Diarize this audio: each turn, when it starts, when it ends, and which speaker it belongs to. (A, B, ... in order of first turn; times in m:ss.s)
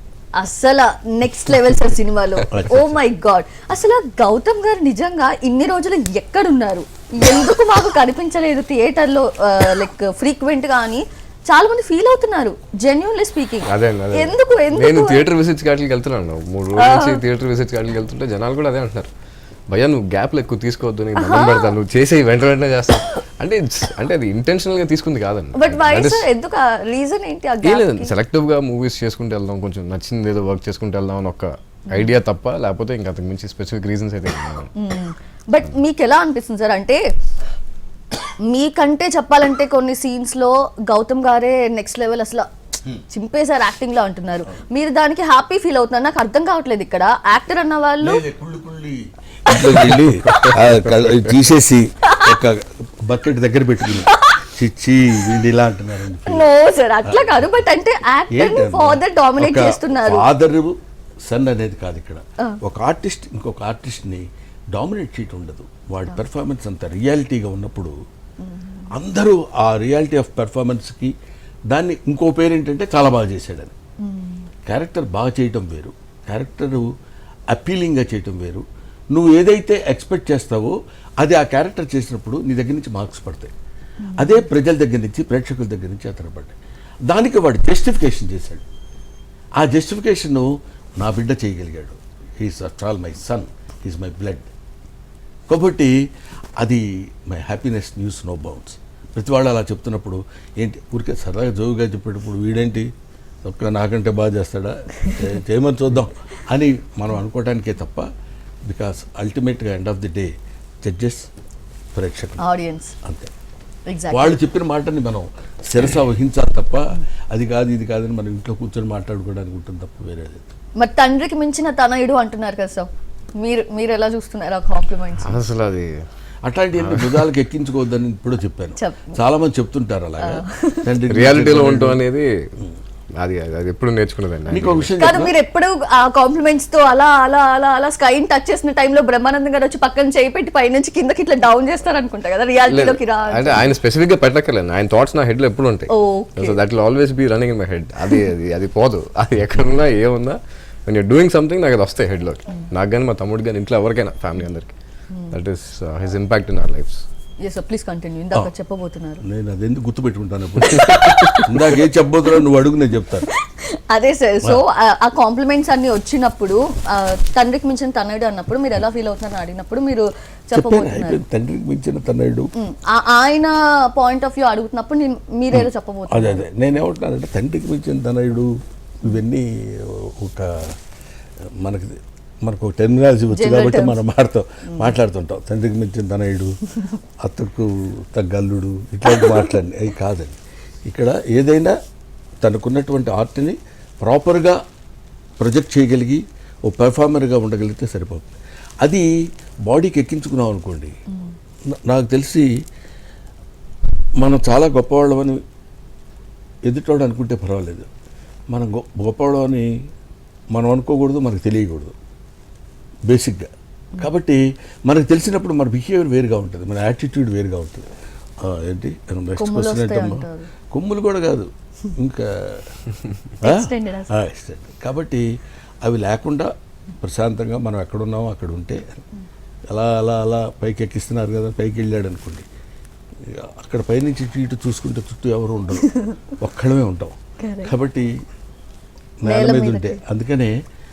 0:00.4-0:15.2 A
0:02.5-0:03.0 B
0:13.7-0:19.1 C
0:16.8-0:17.2 A
0:19.7-0:26.3 C
0:21.2-0:21.7 A
0:25.5-0:28.1 A
0:27.6-0:34.7 C
0:34.7-0:37.0 A
0:38.4-0:48.2 A
0:48.0-0:56.5 B
0:49.5-0:50.5 A
0:50.4-0:51.0 C
0:52.0-0:52.4 A
0:53.9-0:54.4 A
0:56.2-1:00.3 A
0:57.0-0:57.4 B
0:58.3-1:00.7 B
1:01.3-1:07.9 B
1:08.4-1:08.8 A
1:08.9-1:11.1 B
1:11.7-1:13.7 B
1:14.0-1:14.4 A
1:14.6-1:16.9 B
1:17.5-1:23.5 B
1:24.0-1:24.5 A
1:24.2-1:26.5 B
1:27.1-1:28.6 B
1:29.6-1:34.5 B
1:35.5-1:35.9 B
1:36.6-1:42.9 B
1:43.4-1:48.1 B
1:48.7-1:51.3 B
1:51.9-1:52.4 B
1:52.4-1:52.9 A
1:53.0-1:53.3 B
1:53.9-1:54.4 A
1:54.1-2:00.5 B
2:00.8-2:05.4 A
2:05.2-2:06.0 C
2:06.4-2:12.0 B
2:06.8-2:07.3 C
2:08.8-2:09.2 A
2:10.2-2:10.9 A
2:11.0-2:12.3 C
2:13.2-2:14.9 C
2:14.5-2:15.3 B
2:15.0-2:23.7 A
2:22.6-2:34.7 C
2:25.9-2:26.6 A
2:35.1-2:35.4 A
2:35.3-2:37.0 C
2:37.4-2:39.2 A
2:39.2-2:43.3 B
2:40.8-2:41.5 A
2:40.9-2:41.4 C
2:43.3-2:51.2 A
2:50.5-2:52.5 B
2:52.6-2:56.4 A
2:55.5-2:58.5 B
2:59.0-3:00.7 B
3:01.6-3:06.6 B
3:03.3-3:04.0 A
3:07.2-3:11.7 B
3:09.1-3:09.5 A
3:12.4-3:14.6 B
3:15.4-3:19.1 B
3:19.6-3:20.9 B
3:21.9-3:22.5 B
3:24.2-3:25.4 B
3:26.7-3:27.9 B
3:28.5-3:29.7 B
3:30.5-3:31.9 B
3:33.1-3:37.9 B
3:38.4-3:42.7 B
3:39.4-3:40.5 A
3:43.4-3:44.1 A
3:43.4-3:45.2 B
3:45.8-3:48.8 B
3:49.7-3:52.5 B
3:53.3-3:58.1 B
3:55.8-3:56.2 A
3:57.4-3:57.7 A
3:59.2-4:00.5 B
3:59.2-4:00.0 A